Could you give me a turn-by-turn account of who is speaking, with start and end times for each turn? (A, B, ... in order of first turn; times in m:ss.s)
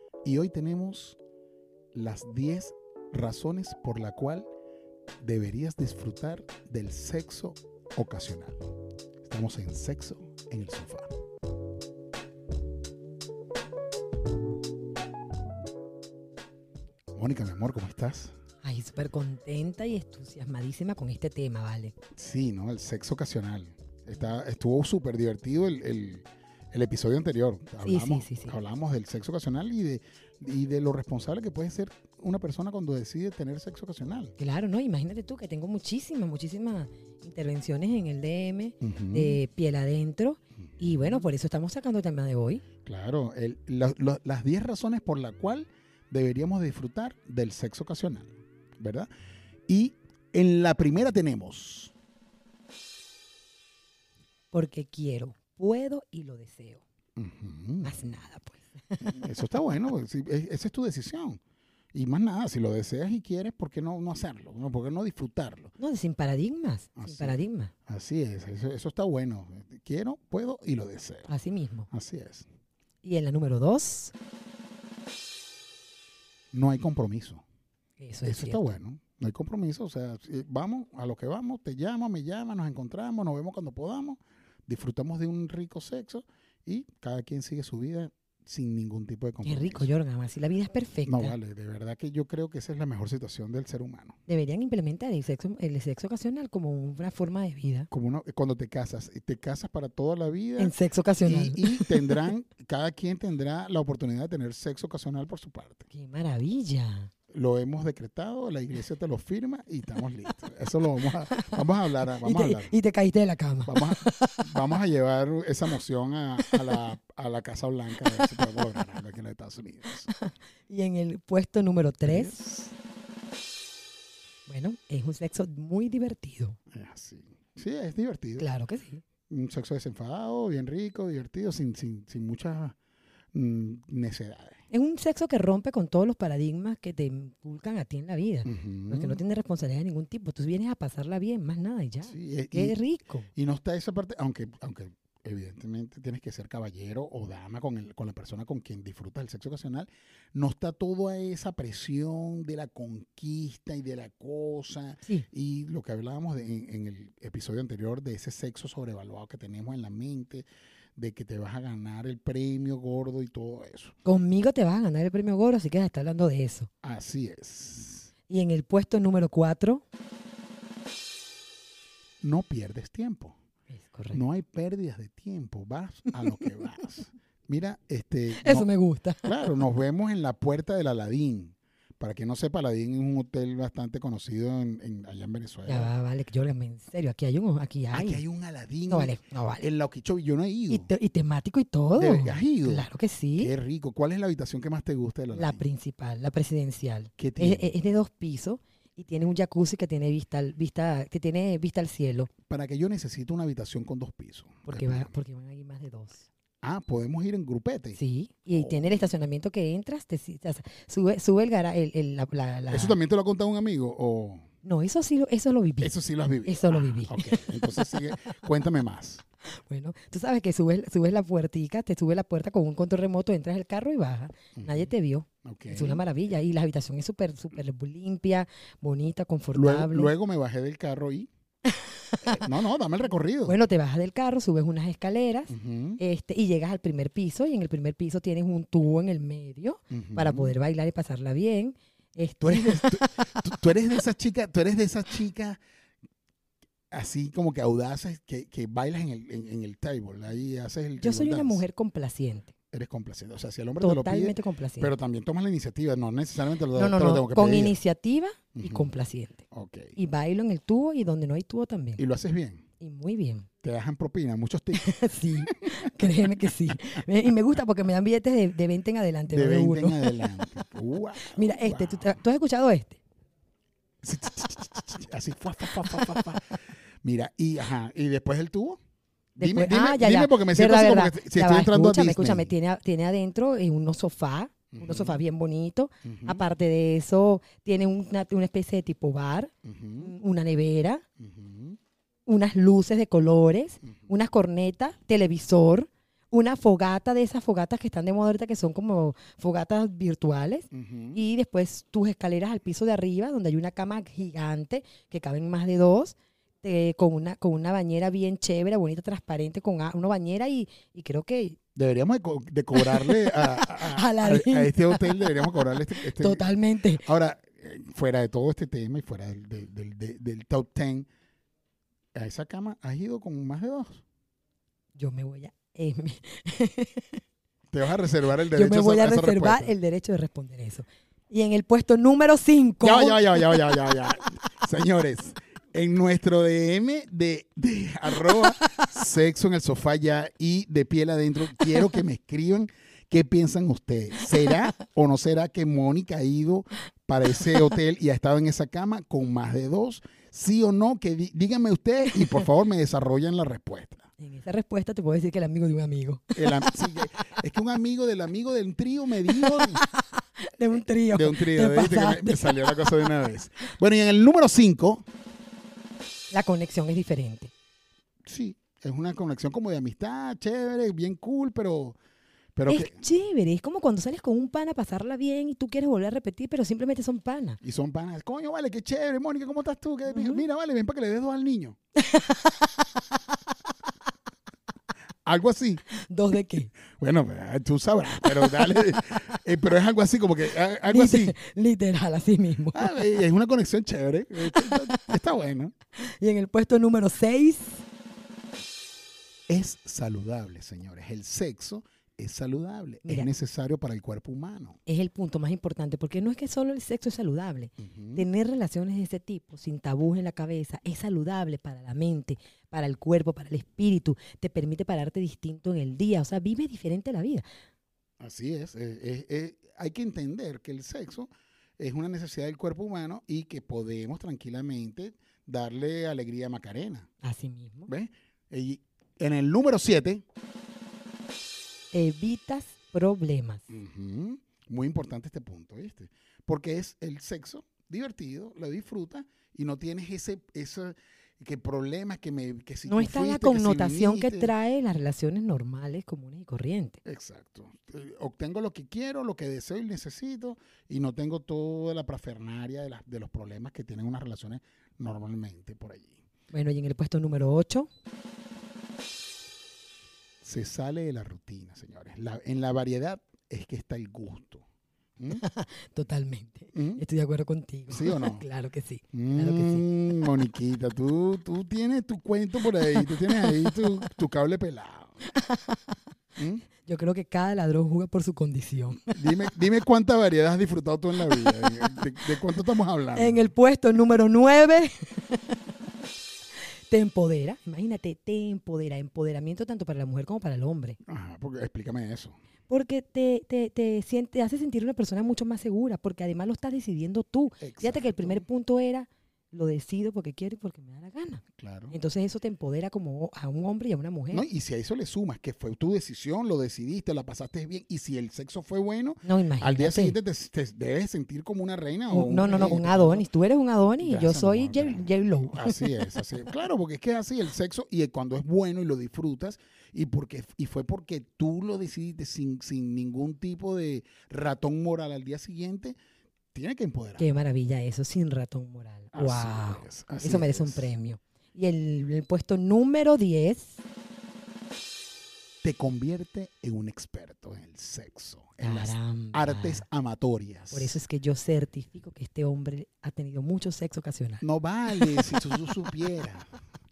0:00.2-0:01.2 A
0:01.9-0:04.5 A
0:05.2-0:08.7 A
0:09.2-0:11.1 A
0:17.1-0:18.4 A
0:18.6-0:22.0 B
0:22.1-0:34.3 A
0:27.8-0:28.6 B
0:34.4-0:42.6 B
0:38.8-0:39.4 A
0:42.8-0:49.1 A
0:49.7-0:51.9 A
0:54.5-0:56.8 B
0:57.2-0:57.9 A
0:57.8-0:59.2 B
0:59.0-1:01.4 A
1:01.9-1:05.7 A
1:05.8-1:07.7 B
1:07.0-1:11.3 A
1:11.3-1:11.9 B
1:11.9-1:12.5 A
1:13.0-1:14.1 B
1:16.5-1:17.4 A
1:18.0-1:18.8 B
1:18.2-1:29.9 A
1:29.4-1:31.4 B
1:31.0-1:34.2 A
1:34.3-1:37.9 B
1:37.9-1:45.9 A
1:40.6-1:42.2 B
1:45.9-1:47.1 B
1:47.3-1:52.8 A
1:51.3-1:51.6 B
1:52.2-1:54.4 B
1:53.7-2:00.1 A
1:56.4-1:56.8 B
1:58.2-1:58.6 B
2:00.1-2:02.4 B
2:02.1-2:02.7 A
2:04.5-2:06.6 B
2:06.7-2:08.5 A
2:08.4-2:09.0 B
2:09.3-2:12.8 A
2:13.3-2:14.6 A
2:14.7-2:23.3 B
2:18.4-2:19.2 A
2:22.0-2:22.8 A
2:23.3-2:44.0 A
2:44.0-2:46.7 B
2:46.8-2:48.1 A
2:48.3-2:49.8 B
2:52.2-2:53.4 A
2:53.7-2:54.2 B
2:54.1-2:58.7 A
2:58.4-2:59.4 B
2:59.2-3:05.9 A
3:05.7-3:08.2 B
3:07.9-3:10.9 A
3:08.9-3:09.6 B
3:10.7-3:13.5 B
3:12.0-3:15.6 A
3:15.3-3:22.3 B
3:17.2-3:17.7 A
3:22.5-3:25.1 A
3:24.7-3:26.3 B
3:26.6-3:28.0 A
3:28.0-3:33.0 B
3:28.5-3:29.1 A
3:32.7-3:34.5 A
3:34.6-3:35.9 B
3:35.8-3:39.2 A
3:36.4-3:38.0 B
3:39.6-3:50.1 B
3:44.6-3:44.9 A
3:45.4-3:46.0 A
3:49.5-3:51.3 A
3:51.6-3:52.5 B
3:52.2-3:53.6 A
3:53.4-4:03.0 B
3:55.5-3:56.0 A
3:59.9-4:00.6 A
4:02.4-4:05.6 A
4:06.9-4:11.6 A
4:11.0-4:12.5 B
4:12.7-4:17.8 A
4:13.8-4:14.9 B
4:16.8-4:19.4 B
4:18.6-4:18.9 A
4:19.5-4:20.0 A
4:20.0-4:22.0 B
4:22.0-4:22.7 A
4:22.8-4:23.5 B
4:23.6-4:25.7 A
4:24.8-4:30.4 B
4:29.3-4:32.2 A
4:31.2-4:33.0 B
4:34.0-4:38.8 A
4:39.4-4:42.5 A
4:39.4-4:51.0 B
4:44.7-4:45.2 A
4:46.0-4:46.4 A
4:49.6-4:50.2 A
4:51.2-4:51.8 A
4:52.3-5:11.6 B
5:00.7-5:01.2 A
5:11.8-5:21.1 A
5:12.7-5:17.0 B
5:22.2-5:24.0 A
5:25.0-5:27.2 B
5:27.7-5:29.7 A
5:28.5-5:33.8 B
5:32.8-5:54.1 A
5:54.2-5:56.6 B
5:56.4-5:59.8 A
5:59.3-6:03.2 B
6:01.1-6:05.0 A
6:06.3-6:07.5 B
6:08.2-6:12.0 A
6:12.6-6:13.0 A
6:12.7-6:17.6 B
6:17.6-6:21.8 A
6:20.1-6:20.4 B
6:22.0-6:23.0 B
6:25.2-6:25.9 A
6:26.0-6:26.8 B
6:26.9-6:31.4 A
6:30.9-6:33.1 B
6:32.7-6:35.7 A
6:36.0-6:37.9 B
6:39.5-6:44.8 A
6:44.9-6:57.4 B
6:47.8-6:48.2 A
6:58.2-7:07.1 A
7:07.2-7:07.9 B
7:07.9-7:10.2 A
7:11.9-7:13.6 B
7:13.7-7:24.5 A
7:22.8-7:27.0 B
7:27.0-7:36.2 A
7:36.5-7:37.9 B
7:40.4-7:44.6 A
7:45.3-7:49.9 B
7:46.7-7:47.0 A
7:47.9-7:48.4 A
7:49.1-7:55.3 A
7:53.0-7:53.8 B
7:55.3-7:56.0 B
7:56.4-7:56.7 A
7:56.8-7:59.1 B
7:59.0-8:03.5 A
8:01.2-8:01.7 B
8:03.2-8:05.6 B
8:06.9-8:11.0 B
8:11.0-8:12.4 A
8:12.7-8:24.5 B
8:17.6-8:18.5 A
8:21.6-8:22.0 A
8:24.3-8:33.3 A
8:29.2-8:30.2 B
8:32.1-8:35.9 B
8:34.0-8:46.0 A
8:46.5-8:47.3 A
8:47.2-8:53.8 B
8:49.1-8:50.9 A
8:55.6-9:01.0 A
8:58.6-8:59.8 B
9:00.7-9:05.3 B
9:04.4-9:06.5 A